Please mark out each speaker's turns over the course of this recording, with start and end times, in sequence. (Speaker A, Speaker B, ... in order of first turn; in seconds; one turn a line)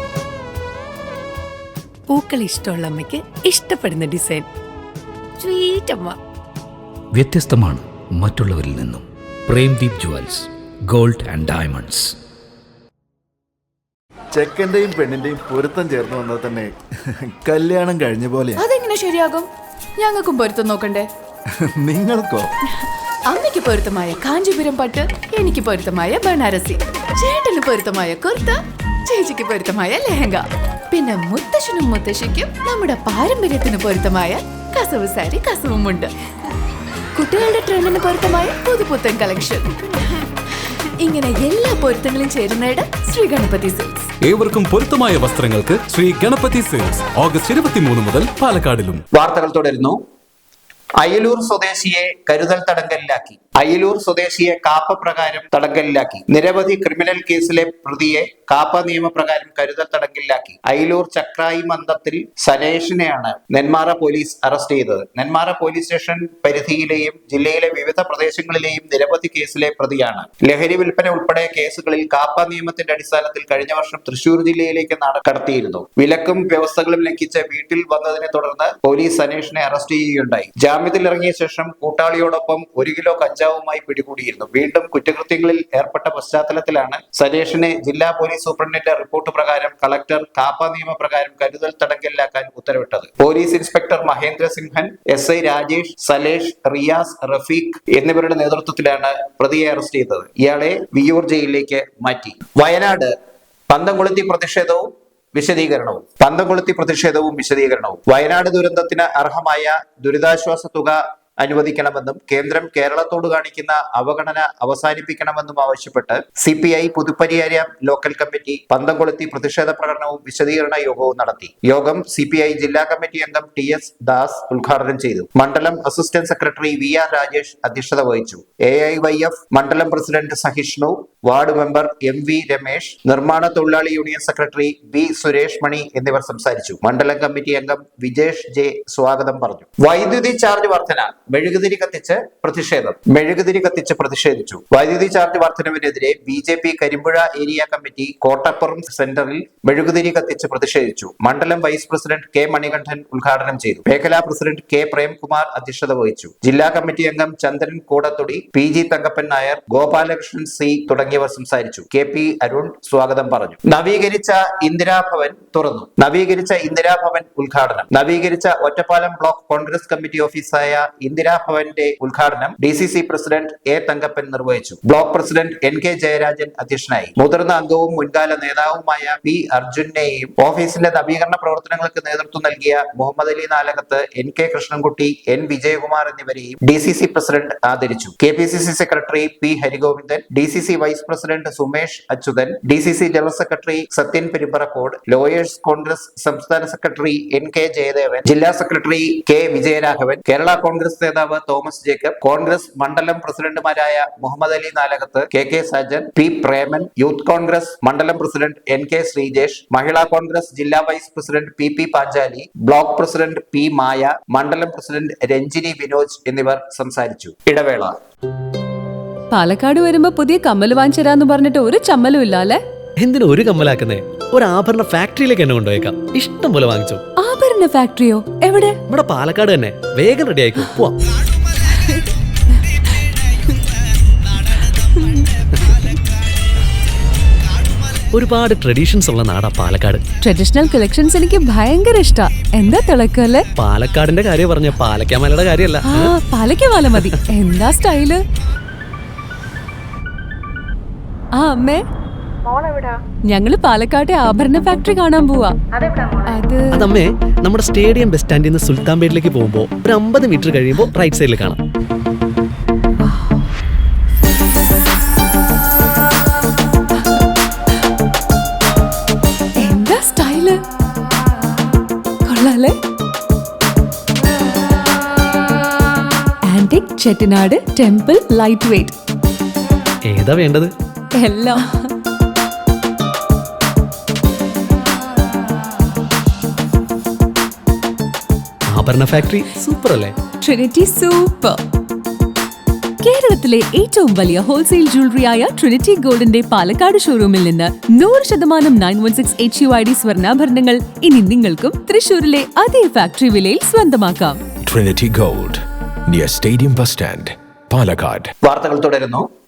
Speaker A: 2.1-4.5
Speaker A: 5.4-6.2
Speaker B: 7.1-12.1
Speaker C: 14.3-18.6
Speaker D: 18.6-21.1
Speaker C: 21.6-22.5
Speaker D: 23.2-36.1
Speaker D: 37.1-39.8
Speaker D: 41.0-44.1
Speaker E: 44.2-49.0
Speaker F: 49.1-50.0
Speaker F: 51.0-103.1
Speaker F: 103.7-217.9
Speaker G: 219.3-222.6
Speaker H: 223.0-227.0
Speaker G: 227.2-228.8
Speaker H: 228.9-230.9
Speaker G: 230.6-230.9
Speaker H: 238.2-240.0
Speaker G: 240.2-243.5
Speaker H: 243.6-246.1
Speaker G: 245.8-248.2
Speaker G: 251.4-251.8
Speaker G: 253.3-255.6
Speaker G: 256.3-256.9
Speaker H: 256.8-261.6
Speaker G: 269.6-270.6
Speaker G: 272.3-272.7
Speaker G: 276.5-278.9
Speaker H: 280.1-280.7
Speaker G: 281.2-281.9
Speaker H: 288.7-290.1
Speaker G: 290.4-291.6
Speaker G: 293.0-304.4
Speaker I: 304.7-308.3
Speaker F: 308.4-309.2